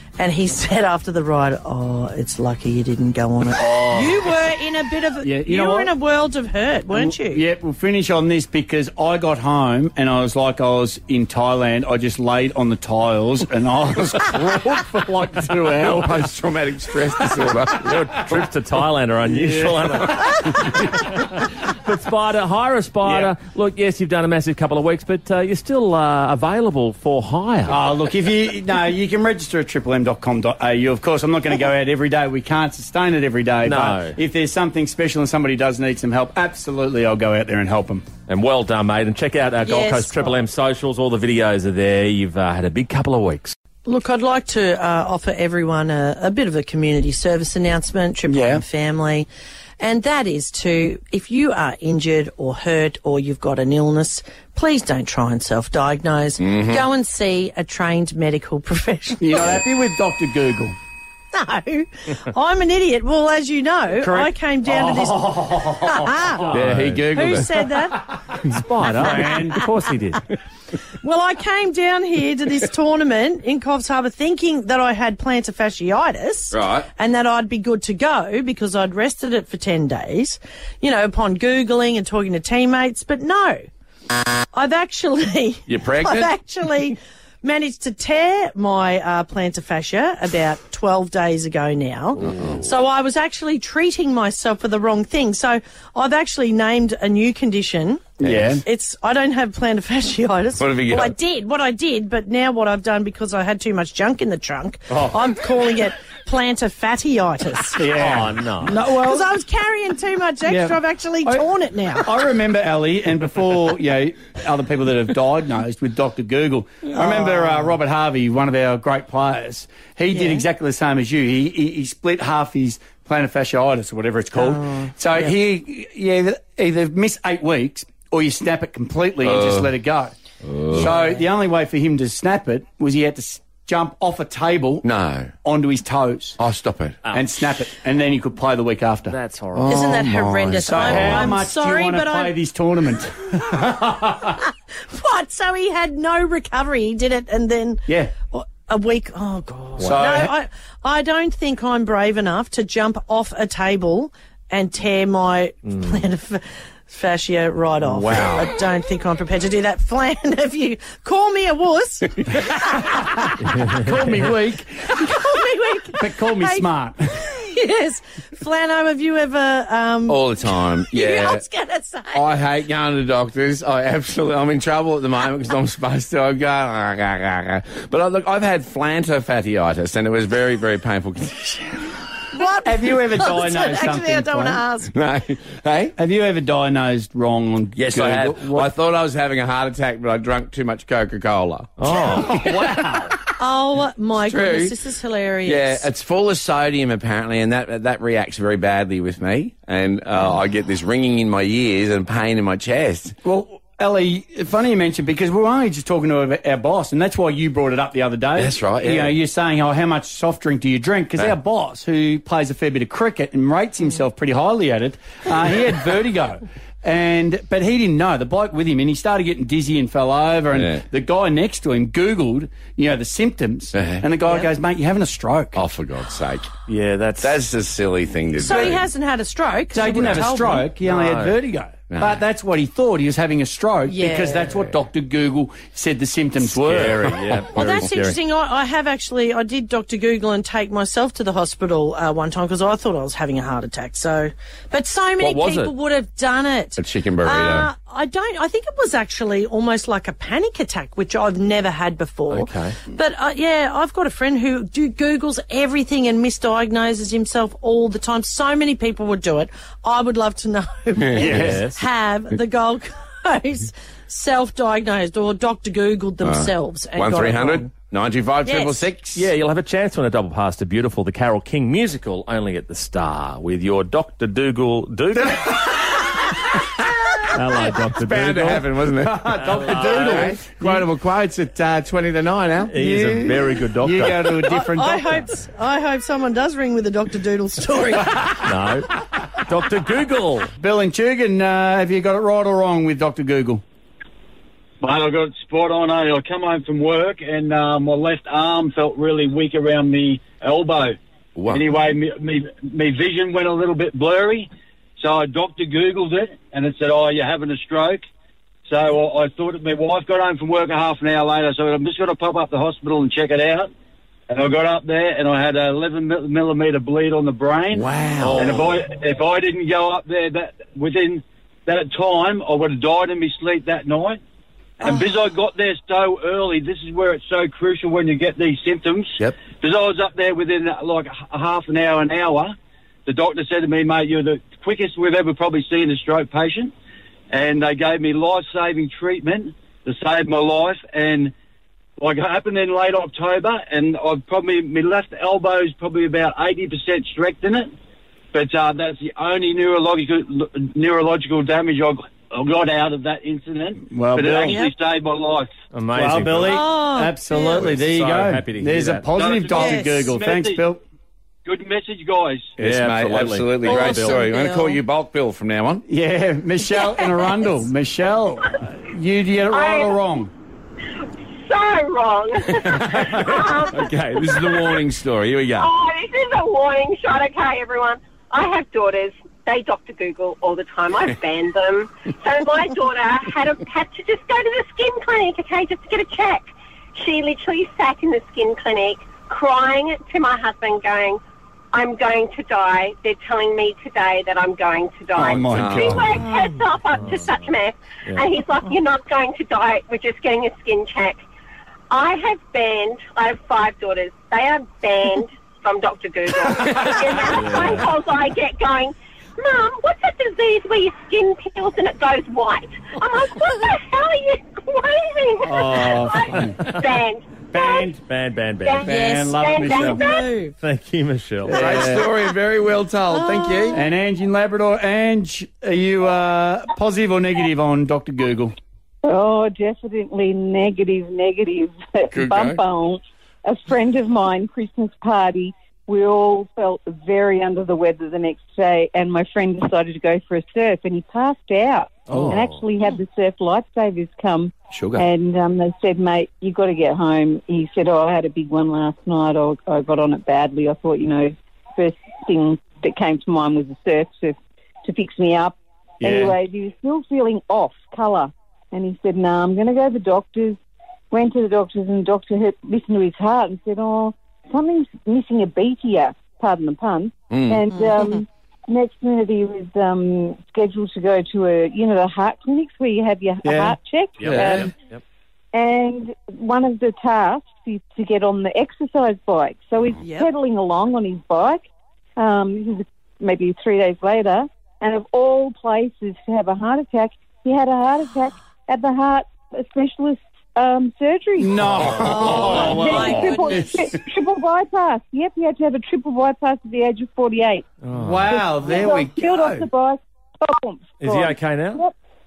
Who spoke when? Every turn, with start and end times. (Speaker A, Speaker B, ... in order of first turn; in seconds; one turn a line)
Speaker A: 0.2-7.5
Speaker B: 3.6-4.2
Speaker B: 5.2-5.9
Speaker B: 6.9-16.3
Speaker C: 15.8-18.4
Speaker D: 17.8-27.9
Speaker B: 19.3-19.9
Speaker B: 23.0-23.3
Speaker B: 27.7-38.0
Speaker D: 33.6-34.2
Speaker D: 38.3-43.5
Speaker A: 39.6-40.4
Speaker A: 43.8-49.3
Speaker B: 48.3-48.6
Speaker A: 49.8-59.6
Speaker C: 56.4-56.8
Speaker B: 59.2-60.7
Speaker A: 61.3-68.0
Speaker B: 64.0-66.1
Speaker C: 66.5-67.6
Speaker D: 68.4-70.3
Speaker A: 68.9-69.6
Speaker B: 69.0-69.6
Speaker A: 71.0-83.6
Speaker C: 76.5-76.9
Speaker A: 84.1-108.0
Speaker C: 85.7-86.3
Speaker C: 92.2-92.6
Speaker B: 98.2-98.6
Speaker C: 98.2-98.6
Speaker C: 100.6-101.1
Speaker B: 107.8-109.3
Speaker D: 107.9-108.8
Speaker A: 108.7-112.2
Speaker B: 110.5-111.5
Speaker B: 112.0-130.1
Speaker A: 117.0-117.8
Speaker A: 120.1-120.5
Speaker A: 124.3-125.3
Speaker C: 129.2-129.7
Speaker C: 130.4-130.9
Speaker B: 130.7-136.4
Speaker A: 130.8-131.2
Speaker C: 134.8-135.3
Speaker C: 136.4-137.1
Speaker B: 137.1-139.2
Speaker D: 139.1-139.8
Speaker C: 139.6-141.3
Speaker A: 139.7-142.4
Speaker B: 140.6-144.3
Speaker A: 144.9-163.4
Speaker B: 147.9-148.2
Speaker B: 149.8-150.3
Speaker D: 157.8-158.5
Speaker D: 163.4-164.3
Speaker B: 163.7-164.9
Speaker A: 164.9-172.3
Speaker B: 166.0-167.1
Speaker C: 170.1-171.4
Speaker C: 172.1-182.1
Speaker A: 182.3-184.9
Speaker B: 182.6-184.6
Speaker C: 184.9-185.9
Speaker B: 186.0-188.7
Speaker C: 187.7-192.0
Speaker D: 191.8-192.5
Speaker B: 192.0-193.2
Speaker A: 193.2-195.9
Speaker C: 194.2-194.8
Speaker C: 195.4-203.2
Speaker B: 203.2-225.7
Speaker C: 208.3-209.2
Speaker C: 220.5-220.8
Speaker C: 223.7-224.0
Speaker C: 225.5-226.6
Speaker D: 226.7-227.3
Speaker C: 227.2-228.8
Speaker A: 228.3-230.7
Speaker B: 229.7-237.2
Speaker D: 230.8-231.4
Speaker C: 231.9-232.2
Speaker A: 233.8-234.6
Speaker D: 236.4-238.2
Speaker C: 236.8-237.9
Speaker A: 237.5-267.7
Speaker D: 245.2-245.7
Speaker C: 246.8-247.7
Speaker D: 252.3-252.7
Speaker C: 261.0-261.6
Speaker B: 261.2-261.7
Speaker D: 261.2-261.8
Speaker C: 266.2-269.3
Speaker A: 268.4-268.9
Speaker D: 269.1-276.1
Speaker D: 277.3-278.7
Speaker C: 277.9-283.5
Speaker B: 279.0-280.9
Speaker D: 279.4-280.4
Speaker D: 282.7-284.4
Speaker B: 282.8-285.1
Speaker A: 284.4-288.4
Speaker D: 288.4-288.9
Speaker D: 289.4-290.5
Speaker B: 290.6-293.6
Speaker E: 294.8-300.9
Speaker C: 301.4-301.7
Speaker E: 301.5-304.5
Speaker E: 305.0-308.0
Speaker E: 308.7-313.7
Speaker E: 314.3-324.2
Speaker C: 317.7-318.8
Speaker E: 324.8-332.5
Speaker E: 333.1-336.7
Speaker E: 337.3-341.3
Speaker E: 342.0-347.7
Speaker E: 348.3-355.5
Speaker B: 353.9-354.6
Speaker A: 354.3-354.7
Speaker D: 355.7-356.6
Speaker B: 355.9-360.8
Speaker A: 356.4-357.7
Speaker D: 357.5-359.1
Speaker E: 359.0-360.7
Speaker A: 359.5-360.1
Speaker E: 361.4-362.5
Speaker C: 362.6-365.8
Speaker D: 362.6-364.2
Speaker A: 363.7-364.8
Speaker B: 365.9-370.3
Speaker A: 366.7-367.1
Speaker F: 369.5-370.0
Speaker F: 371.4-374.8
Speaker C: 372.8-375.7
Speaker F: 375.6-391.2
Speaker F: 391.7-401.2
Speaker B: 395.1-396.1
Speaker C: 395.5-396.0
Speaker A: 396.2-396.6
Speaker D: 396.9-397.5
Speaker F: 401.9-417.9
Speaker D: 407.3-407.9
Speaker B: 415.4-416.6
Speaker D: 416.6-416.9
Speaker B: 417.5-418.0
Speaker D: 418.1-418.9
Speaker F: 418.6-420.3
Speaker A: 418.8-420.5
Speaker B: 418.9-420.1
Speaker D: 420.6-421.6
Speaker B: 421.5-422.1
Speaker C: 421.5-423.8
Speaker A: 423.1-423.8
Speaker B: 423.7-428.5
Speaker G: 429.0-460.6
Speaker C: 432.1-432.6
Speaker D: 442.1-442.6
Speaker C: 442.1-442.4
Speaker C: 444.7-445.1
Speaker B: 456.0-456.4
Speaker G: 461.1-474.7
Speaker C: 467.3-467.6
Speaker A: 467.7-468.2
Speaker B: 473.4-473.8
Speaker D: 474.2-475.0
Speaker C: 474.2-474.7
Speaker G: 475.5-481.6
Speaker A: 480.0-480.3
Speaker G: 482.2-491.6
Speaker B: 491.4-493.7
Speaker D: 491.6-493.2
Speaker A: 491.9-493.8
Speaker G: 492.6-497.7
Speaker D: 497.8-498.4
Speaker B: 497.9-499.7
Speaker G: 498.3-501.9
Speaker D: 501.0-501.9